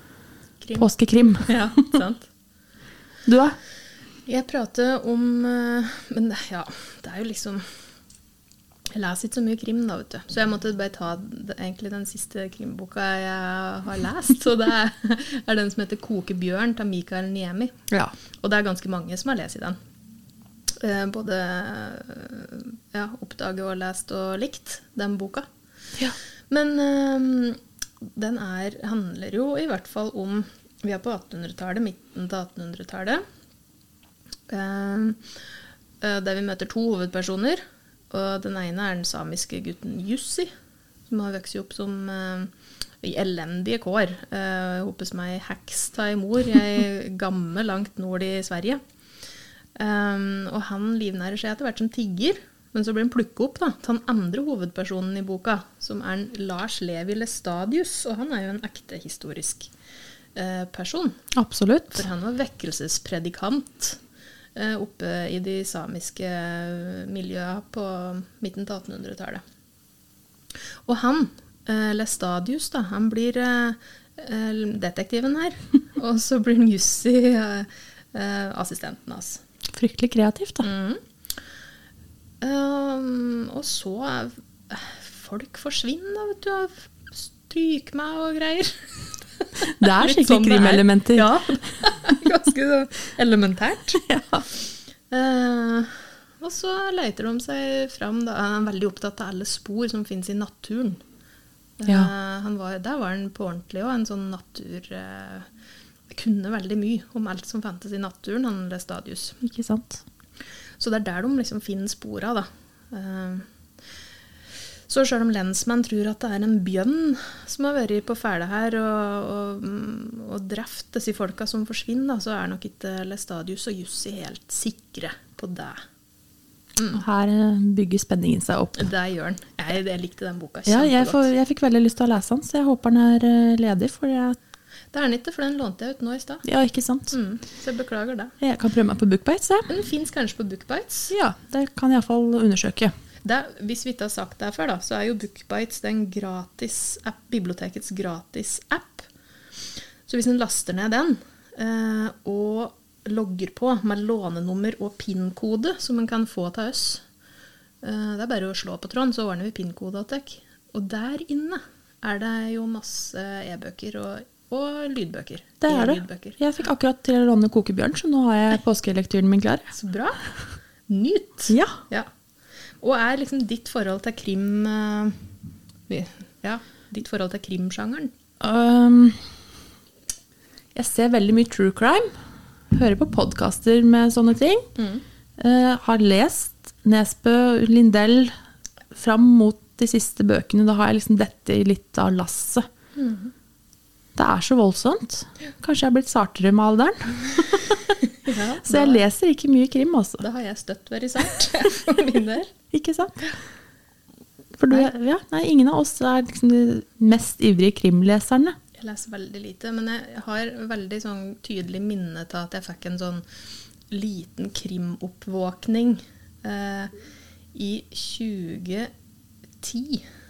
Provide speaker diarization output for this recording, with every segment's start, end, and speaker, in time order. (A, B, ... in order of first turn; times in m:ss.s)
0:00.6-0:00.9 A
0:00.8-0:01.9 B
0:01.4-0:02.3 A
0:03.2-0:03.6 B
0:04.3-0:07.6 A
0:08.9-0:17.8 A
0:18.4-0:19.8 A
0:20.8-0:25.4 A
0:26.5-0:27.6 A
0:28.1-0:33.2 A
0:34.5-0:35.2 A
0:36.0-0:40.5 A
0:41.1-0:48.8 A
0:49.8-0:59.7 A
1:00.3-1:01.2 A
1:01.3-1:02.0 B
1:01.9-1:04.0 A
1:04.6-1:09.4 A
1:10.8-1:19.4 A
1:19.7-1:20.7 B
1:20.6-1:21.0 A
1:22.4-1:34.0 A
1:29.8-1:31.4 B
1:34.0-1:34.4 B
1:35.1-1:41.0 A
1:41.8-1:45.5 A
1:46.1-1:49.4 A
1:49.4-1:50.0 B
1:50.8-1:53.4 A
1:54.9-2:05.8 A
2:06.9-2:08.9 B
2:08.8-2:11.3 A
2:10.7-2:14.4 B
2:14.9-2:16.4 A
2:16.4-2:17.1 B
2:17.1-2:18.3 A
2:18.4-2:19.7 B
2:19.7-2:21.1 A
2:21.1-2:22.9 B
2:23.2-2:29.1 A
2:30.0-2:37.0 A
2:37.8-2:46.4 A
2:45.6-2:49.7 B
2:49.7-2:50.2 A
2:50.9-2:52.1 A
2:51.5-2:51.8 B
2:52.8-2:55.2 A
2:55.9-2:58.1 A
2:58.4-2:59.2 B
3:00.7-3:02.1 B
3:02.7-3:04.6 B
3:04.8-3:05.0 A
3:05.4-3:08.3 B
3:08.9-3:12.6 B
3:13.0-3:13.3 A
3:14.2-3:17.8 B
3:18.2-3:19.0 A
3:18.6-3:20.2 B
3:20.2-3:22.5 A
3:22.7-3:23.2 B
3:24.6-3:28.6 B
3:28.7-3:33.2 A
3:33.9-3:36.9 A
3:37.5-3:38.9 A
3:39.6-3:40.0 A